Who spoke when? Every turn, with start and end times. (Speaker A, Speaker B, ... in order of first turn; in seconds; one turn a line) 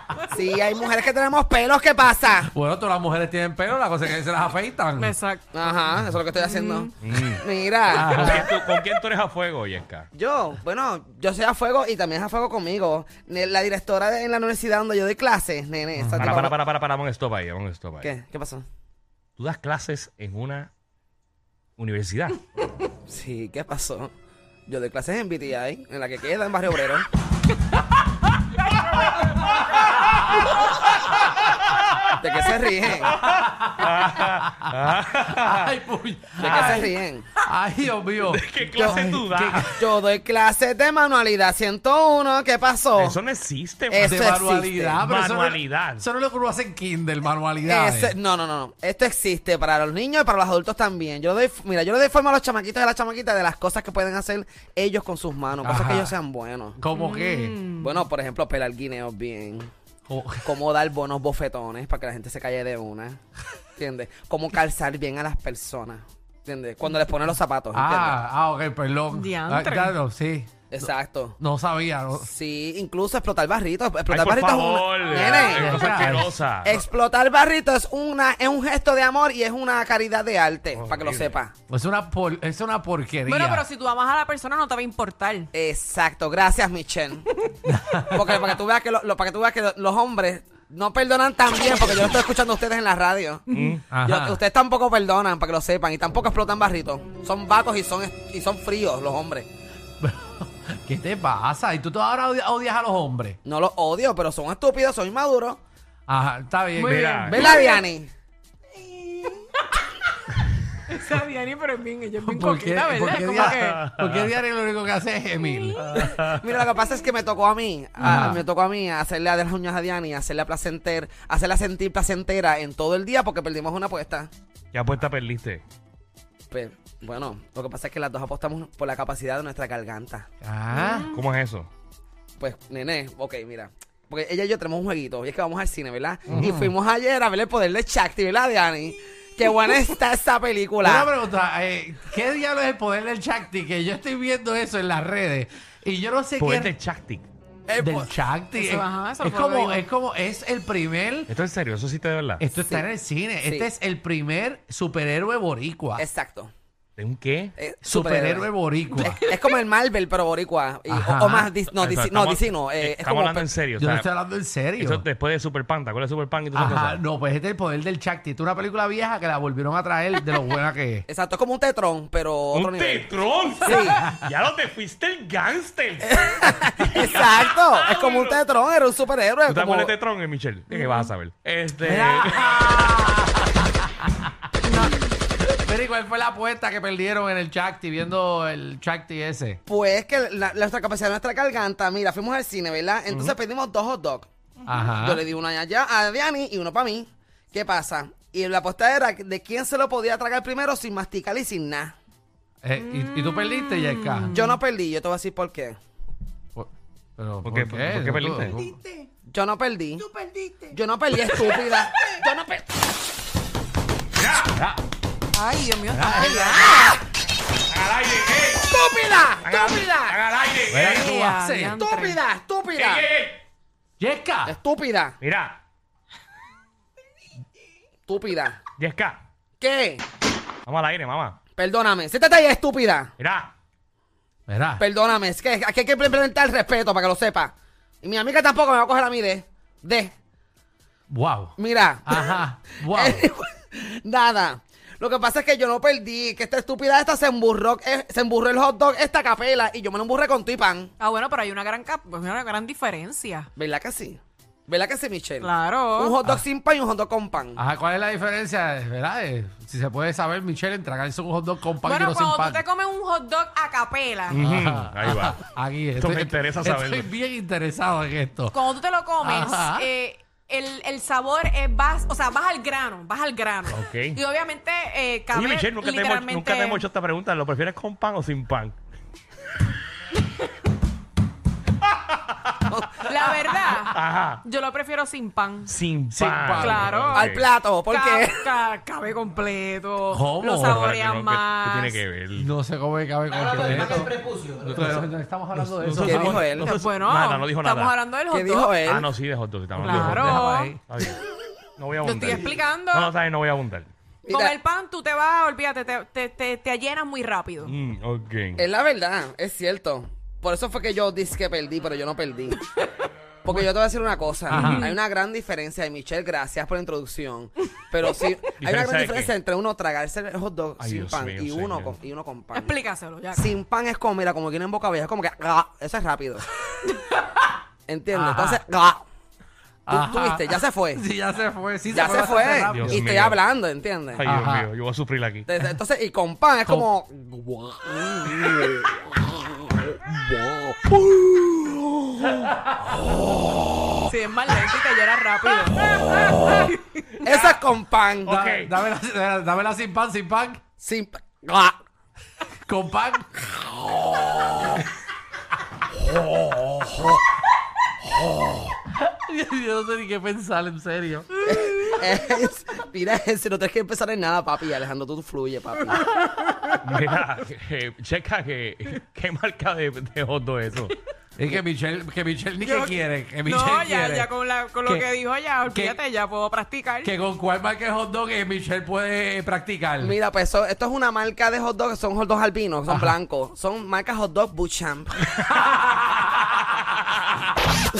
Speaker A: 0.2-2.5
Speaker B: 2.4-5.1
Speaker C: 5.0-5.5
Speaker A: 5.5-8.4
Speaker C: 6.4-6.9
Speaker D: 7.0-10.1
Speaker B: 7.9-8.5
Speaker A: 10.1-16.6
Speaker B: 15.9-16.4
Speaker D: 16.2-18.1
Speaker A: 18.0-18.6
Speaker D: 19.4-20.7
Speaker D: 21.8-22.5
Speaker A: 23.1-24.1
Speaker A: 24.7-27.1
Speaker B: 29.9-30.4
Speaker A: 32.2-33.1
Speaker D: 33.1-35.7
Speaker B: 33.1-36.9
Speaker A: 36.4-37.2
Speaker D: 36.4-36.8
Speaker B: 37.4-39.8
Speaker D: 38.2-39.7
Speaker A: 38.7-39.0
Speaker A: 39.7-43.2
Speaker D: 43.0-44.3
Speaker A: 43.9-45.0
Speaker B: 44.0-48.1
Speaker D: 45.0-46.0
Speaker A: 47.6-56.8
Speaker B: 55.6-56.1
Speaker B: 56.8-57.5
Speaker C: 57.0-57.9
Speaker A: 57.8-59.7
Speaker B: 60.1-60.4
Speaker A: 60.4-63.2
Speaker A: 63.8-68.2
Speaker B: 67.7-70.9
Speaker C: 69.2-69.9
Speaker A: 70.7-71.4
Speaker B: 71.4-72.3
Speaker A: 72.1-76.0
Speaker D: 74.1-76.7
Speaker B: 75.2-76.3
Speaker A: 76.6-81.5
Speaker D: 80.7-81.3
Speaker B: 81.7-83.6
Speaker C: 83.3-85.5
Speaker A: 85.5-87.3
Speaker B: 87.7-88.3
Speaker A: 88.1-93.5
Speaker D: 93.5-93.8
Speaker B: 93.9-94.4
Speaker A: 94.0-99.5
Speaker B: 100.0-103.4
Speaker A: 103.4-105.6
Speaker B: 106.1-107.5
Speaker D: 106.8-107.5
Speaker C: 106.8-107.8
Speaker A: 107.2-108.1
Speaker C: 110.9-113.8
Speaker B: 112.2-115.8
Speaker D: 113.4-114.3
Speaker D: 115.8-116.4
Speaker A: 115.9-124.3
Speaker B: 118.0-118.4
Speaker D: 124.7-125.6
Speaker A: 126.5-130.3
Speaker B: 130.4-131.1
Speaker C: 130.7-131.2
Speaker D: 131.1-131.7
Speaker A: 132.4-141.1
Speaker B: 136.3-136.7
Speaker B: 140.8-146.7
Speaker D: 146.4-147.2
Speaker A: 147.7-148.1
Speaker B: 147.8-151.3
Speaker C: 148.6-149.8
Speaker D: 151.3-152.4
Speaker B: 152.4-156.0
Speaker A: 153.4-153.7
Speaker A: 156.0-156.5
Speaker D: 157.0-157.5
Speaker A: 157.6-163.5
Speaker B: 157.8-159.2
Speaker B: 160.9-161.5
Speaker D: 161.7-164.1
Speaker B: 163.8-165.1
Speaker D: 164.8-167.0
Speaker B: 166.5-171.1
Speaker A: 171.1-173.1
Speaker D: 172.5-178.4
Speaker A: 173.6-174.0
Speaker B: 173.7-174.2
Speaker A: 176.1-179.9
Speaker D: 179.5-182.9
Speaker B: 181.8-184.5
Speaker B: 185.4-189.6
Speaker A: 189.7-194.3
Speaker B: 194.7-195.2
Speaker A: 194.9-201.9
Speaker B: 202.6-204.3
Speaker A: 204.3-205.8
Speaker B: 206.5-208.8
Speaker D: 207.4-208.6
Speaker A: 209.3-210.0
Speaker A: 210.7-212.7
Speaker D: 214.2-214.5
Speaker B: 214.5-214.8
Speaker C: 215.3-216.9
Speaker B: 215.9-216.9
Speaker D: 217.7-218.7
Speaker A: 218.6-220.2
Speaker D: 219.4-221.1
Speaker B: 220.7-221.8
Speaker C: 221.0-222.2
Speaker A: 221.7-223.1
Speaker D: 222.8-223.4
Speaker B: 224.0-224.5
Speaker A: 224.4-225.1
Speaker D: 225.2-225.6
Speaker A: 228.1-228.6
Speaker D: 228.8-229.2
Speaker A: 229.6-230.0
Speaker D: 230.7-231.4
Speaker A: 231.6-233.1
Speaker D: 233.2-233.5
Speaker B: 234.5-234.8
Speaker A: 234.8-240.1
Speaker B: 241.1-243.3
Speaker A: 241.6-242.4
Speaker A: 242.9-250.9
Speaker C: 251.0-253.5
Speaker A: 253.6-257.6
Speaker C: 255.4-256.1
Speaker B: 257.6-262.6
Speaker C: 261.9-264.4
Speaker D: 264.3-265.4
Speaker B: 264.3-268.6
Speaker D: 266.0-267.1
Speaker C: 268.5-276.8
Speaker B: 269.2-269.9
Speaker D: 273.7-274.2
Speaker D: 275.3-278.8
Speaker D: 281.9-282.6
Speaker A: 282.7-283.3
Speaker C: 283.1-285.7
Speaker D: 283.8-284.4
Speaker D: 285.7-287.4
Speaker B: 286.1-287.1
Speaker C: 286.6-287.2
Speaker A: 287.1-288.5
Speaker C: 287.9-292.0
Speaker B: 290.1-290.9
Speaker D: 290.6-292.5
Speaker B: 292.3-296.6
Speaker D: 294.4-297.9
Speaker A: 296.0-296.7
Speaker C: 296.6-298.8
Speaker A: 298.3-299.1
Speaker D: 298.8-301.2
Speaker B: 299.8-300.8
Speaker C: 299.8-300.7
Speaker D: 301.8-303.9
Speaker C: 302.0-303.1
Speaker A: 304.2-304.5
Speaker C: 304.3-307.7
Speaker D: 307.6-308.6
Speaker A: 308.6-312.6
Speaker A: 313.4-322.7
Speaker B: 314.5-314.9
Speaker C: 314.6-314.9
Speaker D: 318.6-319.3
Speaker D: 320.8-322.0
Speaker C: 322.5-323.5
Speaker A: 323.3-326.5
Speaker A: 327.9-329.0
Speaker B: 328.1-328.6
Speaker B: 329.9-333.2
Speaker A: 329.9-331.0
Speaker A: 331.9-334.2
Speaker D: 332.5-333.4
Speaker D: 334.1-335.5
Speaker B: 334.2-334.7
Speaker A: 335.5-342.4
Speaker B: 342.5-342.9
Speaker C: 344.1-347.0
Speaker D: 347.2-347.6
Speaker A: 347.2-348.3
Speaker D: 348.2-348.7
Speaker B: 348.3-350.6
Speaker A: 350.8-351.8
Speaker B: 352.7-354.3
Speaker B: 358.9-361.3
Speaker A: 361.4-366.1
Speaker D: 366.8-370.9
Speaker B: 371.4-374.3
Speaker C: 372.6-372.9
Speaker C: 373.5-377.1
Speaker B: 375.6-376.0
Speaker B: 377.0-380.1
Speaker A: 380.0-385.4